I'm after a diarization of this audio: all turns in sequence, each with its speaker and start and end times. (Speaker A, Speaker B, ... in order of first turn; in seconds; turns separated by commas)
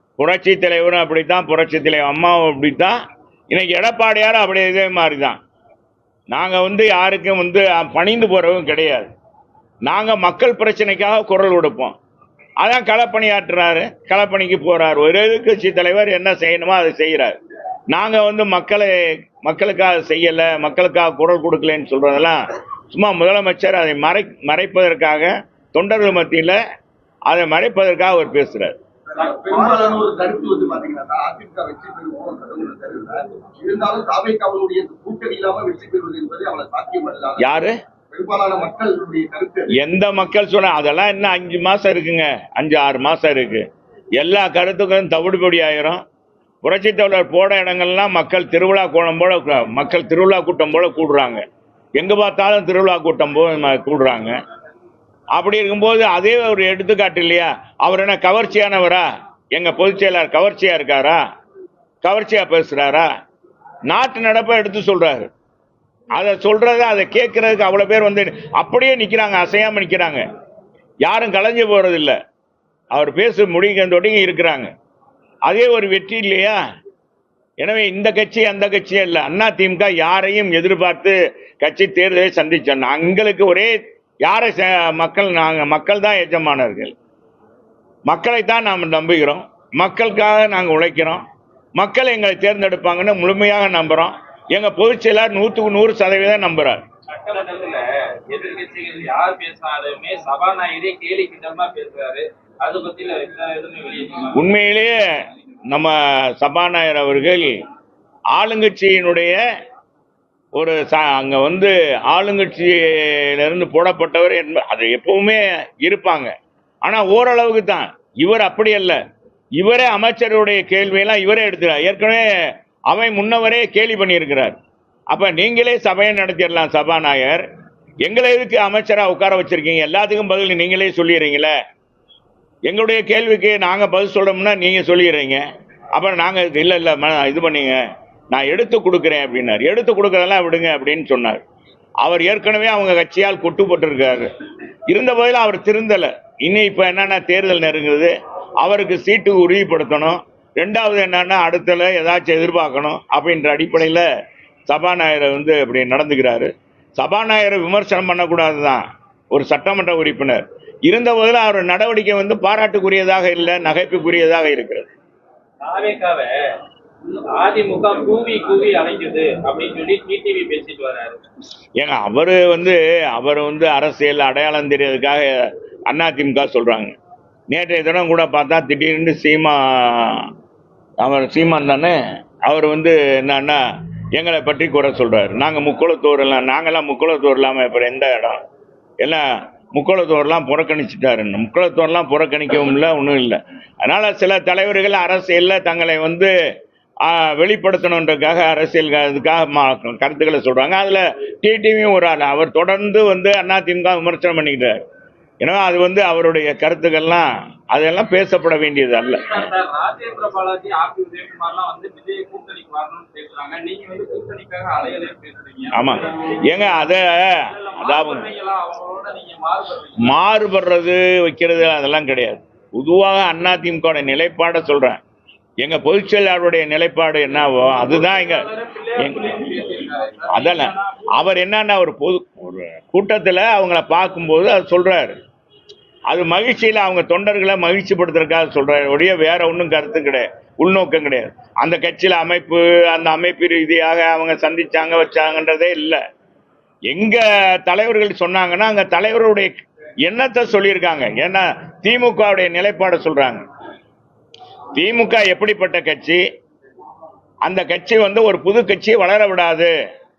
Speaker A: 0.2-3.0, Speaker A: 3.5-5.4, Speaker A: 6.3-9.1, Speaker A: 9.9-11.9, Speaker A: 12.6-17.4, Speaker A: 17.9-26.6, Speaker A: 27.3-28.8, Speaker B: 29.1-29.7, Speaker C: 29.1-39.7, Speaker A: 37.4-37.7, Speaker A: 39.7-43.6, Speaker A: 44.2-46.0, Speaker A: 46.6-51.4, Speaker A: 52.0-54.3, Speaker A: 55.4-61.2, Speaker A: 62.0-63.1, Speaker A: 63.9-65.3, Speaker A: 66.2-70.2, Speaker A: 71.0-72.2, Speaker A: 72.9-74.7, Speaker A: 75.5-76.6, Speaker A: 77.6-86.9, Speaker A: 88.1-91.2, Speaker A: 91.8-96.8, Speaker B: 97.1-104.5, Speaker A: 104.3-105.0, Speaker A: 105.7-107.5, Speaker A: 108.3-109.4, Speaker A: 110.6-116.3, Speaker A: 116.8-119.0, Speaker A: 119.6-122.2, Speaker A: 122.9-124.6, Speaker A: 125.1-127.5, Speaker A: 128.0-131.5, Speaker A: 132.7-135.4, Speaker A: 136.0-137.8, Speaker A: 138.3-141.4, Speaker A: 142.0-144.3, Speaker A: 144.9-154.1, Speaker A: 154.7-164.9, Speaker B: 165.6-166.3, Speaker B: 167.1-171.2, Speaker A: 171.8-175.4, Speaker A: 175.9-177.0, Speaker A: 177.5-180.3, Speaker A: 181.0-183.6, Speaker A: 184.2-188.4, Speaker A: 189.0-196.3, Speaker A: 197.1-204.8, Speaker A: 205.4-209.5, Speaker B: 208.9-220.2, Speaker A: 215.7-218.3, Speaker A: 220.0-225.0, Speaker A: 225.6-228.5, Speaker B: 227.7-231.1, Speaker A: 229.0-229.4, Speaker A: 230.3-235.2, Speaker A: 236.1-246.0, Speaker A: 246.9-249.5, Speaker A: 250.1-253.4, Speaker A: 254.8-256.2, Speaker A: 257.4-259.7